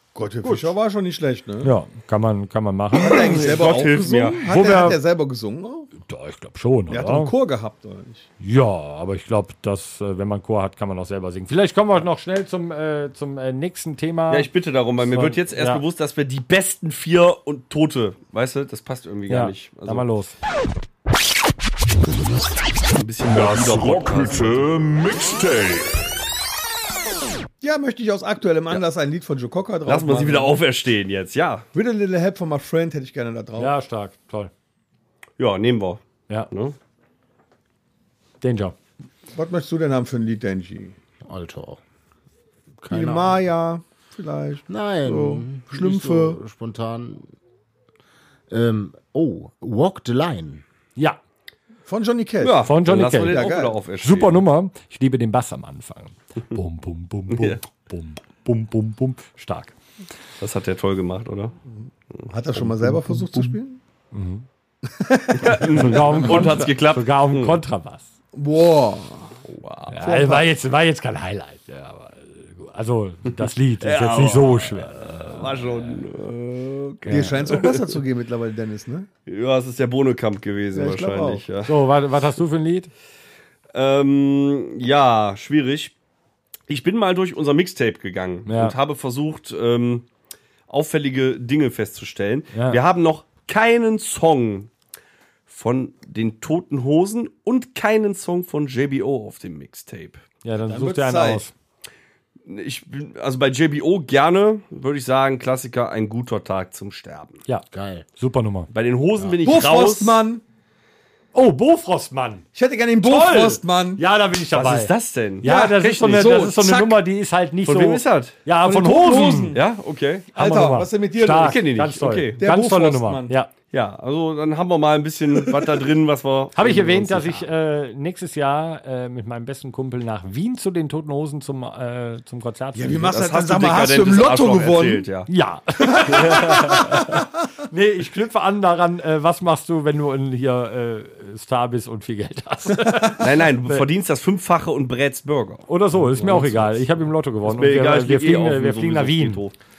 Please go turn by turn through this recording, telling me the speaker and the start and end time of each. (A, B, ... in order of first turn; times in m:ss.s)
0:00.1-0:01.7 A
0:00.4-0:00.7 B
0:01.6-0:03.5 B
0:03.0-0:05.9 A
0:03.0-0:04.4 C
0:04.4-0:05.0 B
0:06.0-0:07.3 B
0:06.9-0:08.3 A
0:08.4-0:15.8 B
0:14.3-0:20.0 C
0:19.3-0:20.3 B
0:22.9-0:24.7 C
0:23.2-0:26.0 D
0:27.6-0:30.5 A
0:29.8-0:31.6 C
0:31.7-0:33.7 A
0:33.6-0:34.5 B
0:35.4-0:36.8 C
0:38.4-0:38.7 B
0:39.3-0:40.9 A
0:41.2-0:41.8 E
0:42.8-0:43.4 E
0:42.9-0:46.4 A
0:44.7-0:47.3 E
0:48.5-0:50.6 E
0:51.8-0:52.7 A
0:52.4-0:54.4 C
0:52.6-0:53.5 B
0:53.3-0:53.8 A
0:54.0-0:59.7 B
0:57.3-0:57.6 C
1:00.4-1:01.5 C
1:02.1-1:03.2 C
1:02.3-1:03.8 A
1:04.1-1:04.4 B
1:04.8-1:06.4 A
1:05.4-1:07.6 C
1:05.7-1:08.1 B
1:08.3-1:09.4 A
1:09.5-1:10.0 C
1:09.9-1:16.0 B
1:10.0-1:10.4 A
1:13.8-1:18.0 C
1:17.0-1:17.4 B
1:17.1-1:19.1 A
1:19.2-1:21.7 C
1:20.7-1:21.4 A
1:21.6-1:22.9 B
1:23.7-1:25.9 C
1:26.7-1:30.1 C
1:28.4-1:28.7 B
1:30.7-1:34.7 C
1:32.5-1:32.8 B
1:35.5-1:40.2 C
1:40.4-1:41.5 B
1:40.7-1:41.4 A
1:42.4-1:47.4 C
1:47.5-1:48.7 B
1:47.7-1:48.0 E
1:48.7-1:50.2 C
1:49.4-1:50.4 A
1:51.3-1:52.4 B
1:52.5-1:54.0 A
1:53.0-1:59.6 B
1:54.5-1:56.3 C
1:55.4-1:57.0 A
1:57.6-1:58.4 C
1:58.6-1:59.6 A
1:59.5-2:00.3 C
2:00.3-2:01.6 A
2:00.3-2:03.5 B
2:01.4-2:02.4 C
2:02.4-2:03.3 A
2:03.7-2:07.5 C
2:06.6-2:13.1 B
2:12.7-2:15.1 A
2:13.1-2:15.3 C
2:15.3-2:17.0 B
2:15.8-2:17.2 A
2:16.0-2:17.0 C
2:17.7-2:23.8 B
2:23.2-2:26.8 C
2:25.7-2:29.4 B
2:27.4-2:29.6 C